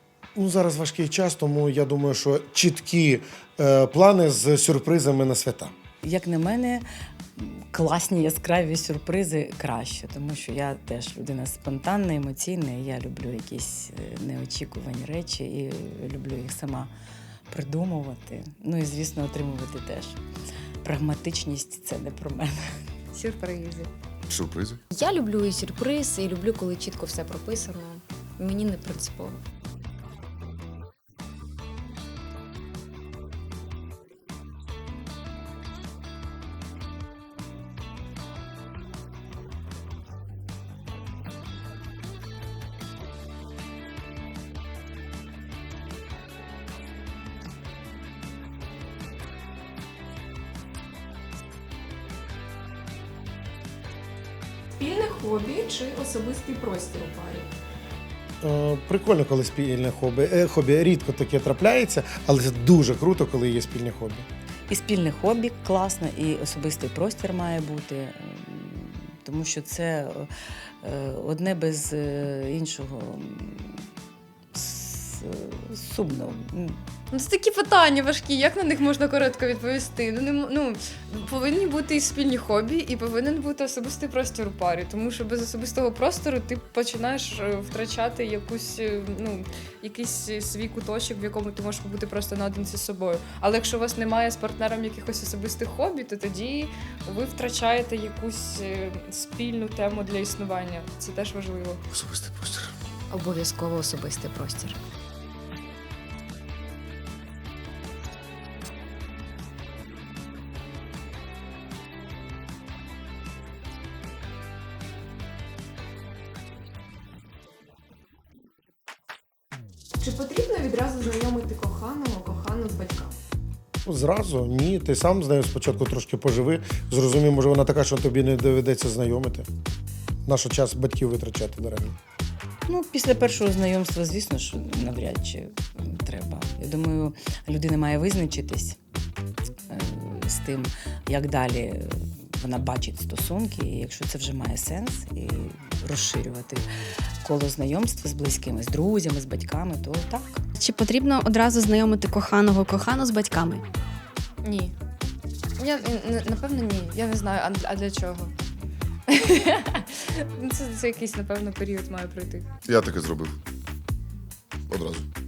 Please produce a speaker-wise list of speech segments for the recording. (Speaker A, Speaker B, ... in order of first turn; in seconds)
Speaker A: 0.4-5.7, 58.4-64.3, 123.8-129.5, 130.3-132.0
Speaker B: 6.0-6.8, 7.4-16.9, 17.5-20.2, 20.8-22.6, 64.7-70.3, 70.8-73.8, 74.5-76.8, 132.7-138.8, 139.7-146.7, 147.2-150.4
Speaker C: 23.1-23.9, 77.1-101.8, 154.4-154.7, 155.6-158.3, 159.1-162.5
Speaker D: 24.3-24.8, 101.9-102.7, 162.7-163.4, 164.7-165.1
Speaker E: 24.9-29.4, 103.1-104.8
Speaker F: 54.8-57.5, 120.0-123.2
Speaker G: 150.6-153.6